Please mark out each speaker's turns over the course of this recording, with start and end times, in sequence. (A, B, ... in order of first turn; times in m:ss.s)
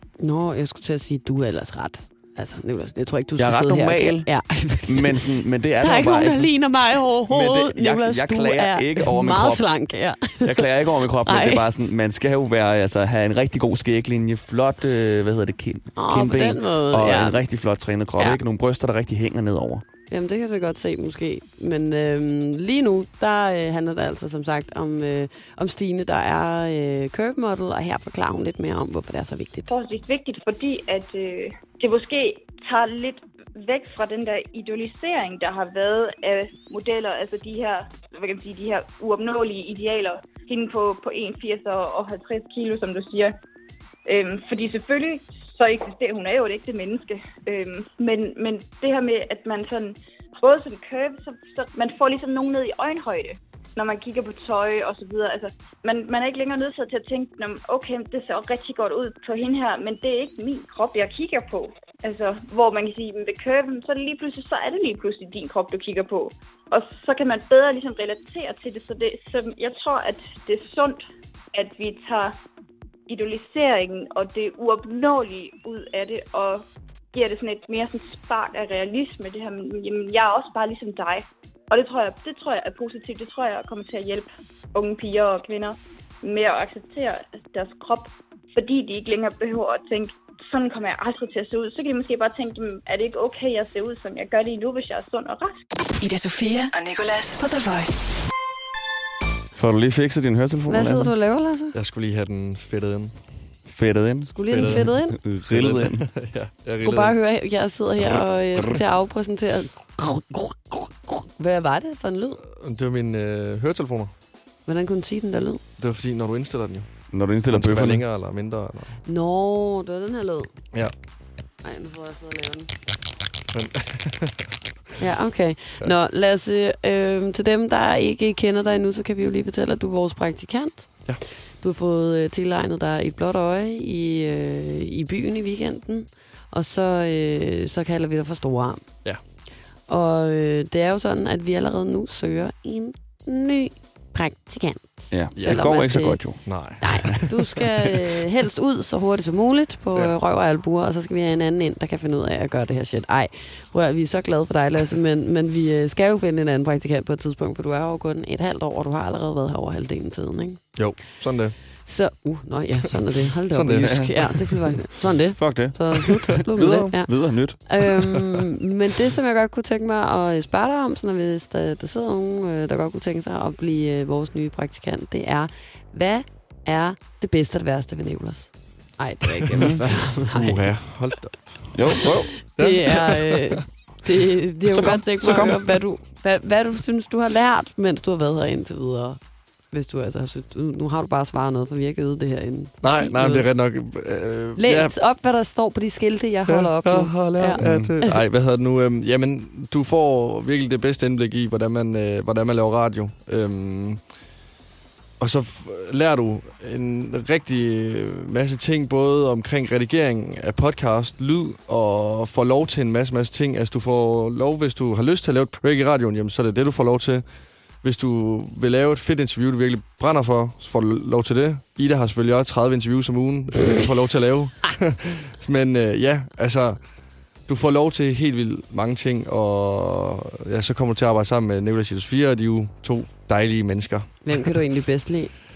0:00.2-0:11.7 A
0:03.4-0:04.3 B
0:04.9-0:06.5 B
0:07.3-0:09.6 B
0:10.4-0:19.8 B
0:16.0-0:17.4 A
0:20.1-0:29.8 A
0:29.7-0:43.4 C
0:44.1-1:11.0 C
1:11.5-1:12.4 C
1:13.1-1:35.6 C
1:36.0-1:38.1 D
1:39.6-1:41.1 B
1:40.7-1:41.8 A
1:41.7-1:43.2 E
1:43.7-1:46.1 B
1:44.3-1:45.2 A
1:44.5-1:44.9 E
1:45.5-1:47.2 E
1:46.8-1:52.4 A
1:52.5-1:54.1 E
1:54.7-1:55.6 A
1:55.8-1:56.9 E
1:57.1-1:58.0 B
1:57.5-1:59.0 E
1:59.0-2:00.5 A
2:01.6-2:02.7 A
2:03.5-2:04.5 E
2:05.0-2:10.9 A
2:11.6-2:18.9 A
2:19.9-2:26.2 A
2:25.1-2:27.1 B
2:25.4-2:25.7 E
2:26.4-2:27.7 E
2:26.8-2:40.6 A
2:40.8-2:41.6 E
2:41.8-2:47.1 A
2:43.5-2:44.5 E
2:43.8-2:44.1 B
2:45.4-2:48.3 B
2:47.7-3:00.7 A
2:59.6-2:59.8 B
3:00.3-3:03.6 E
3:01.7-3:02.4 B
3:01.9-3:09.2 A
3:04.7-3:05.7 B
3:09.7-3:13.5 A
3:12.8-3:14.9 E
3:14.6-3:18.2 A
3:16.5-3:24.0 E
3:17.6-3:17.9 B
3:25.2-3:37.2 E
3:37.8-3:46.8 E
3:47.5-3:54.6 E
3:54.2-3:55.3 A